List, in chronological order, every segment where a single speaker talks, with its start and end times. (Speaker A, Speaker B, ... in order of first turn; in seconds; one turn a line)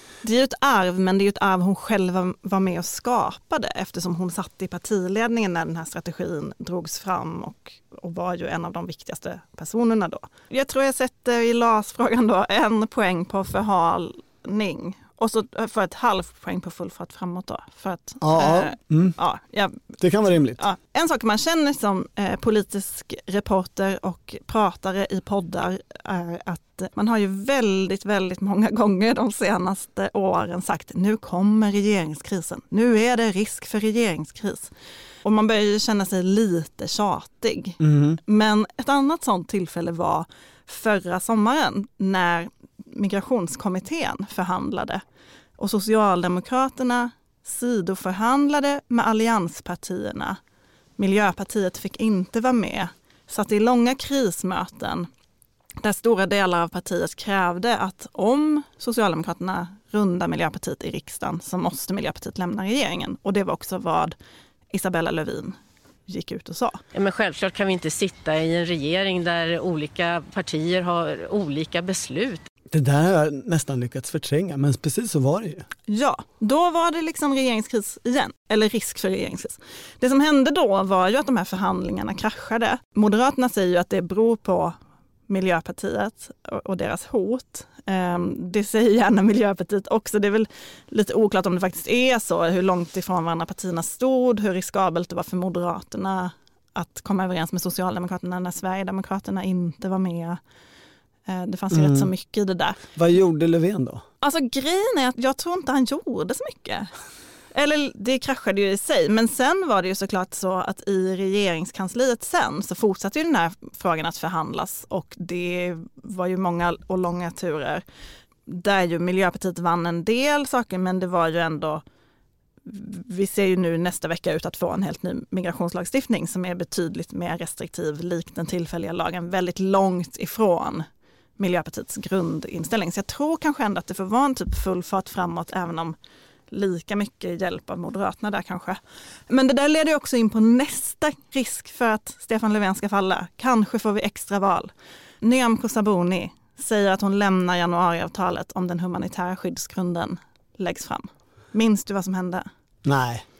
Speaker A: 0.2-34.7
Speaker B: 18.2-19.1
Speaker B: 20.0-20.6
Speaker A: 35.2-45.0
Speaker B: 37.8-38.2
Speaker A: 45.6-50.4
Speaker A: 51.0-55.1
Speaker A: 55.8-64.1
Speaker A: 64.7-66.8
Speaker C: 66.9-72.5
Speaker B: 72.7-75.7
Speaker A: 75.9-84.7
Speaker A: 85.3-100.4
Speaker A: 101.3-102.8
Speaker B: 101.7-102.1
Speaker B: 102.9-104.0
Speaker A: 104.2-106.9
Speaker A: 107.5-117.8
Speaker A: 118.5-121.8
Speaker A: 122.6-130.8
Speaker A: 131.4-135.9
Speaker A: 136.5-152.4
Speaker B: 152.8-153.2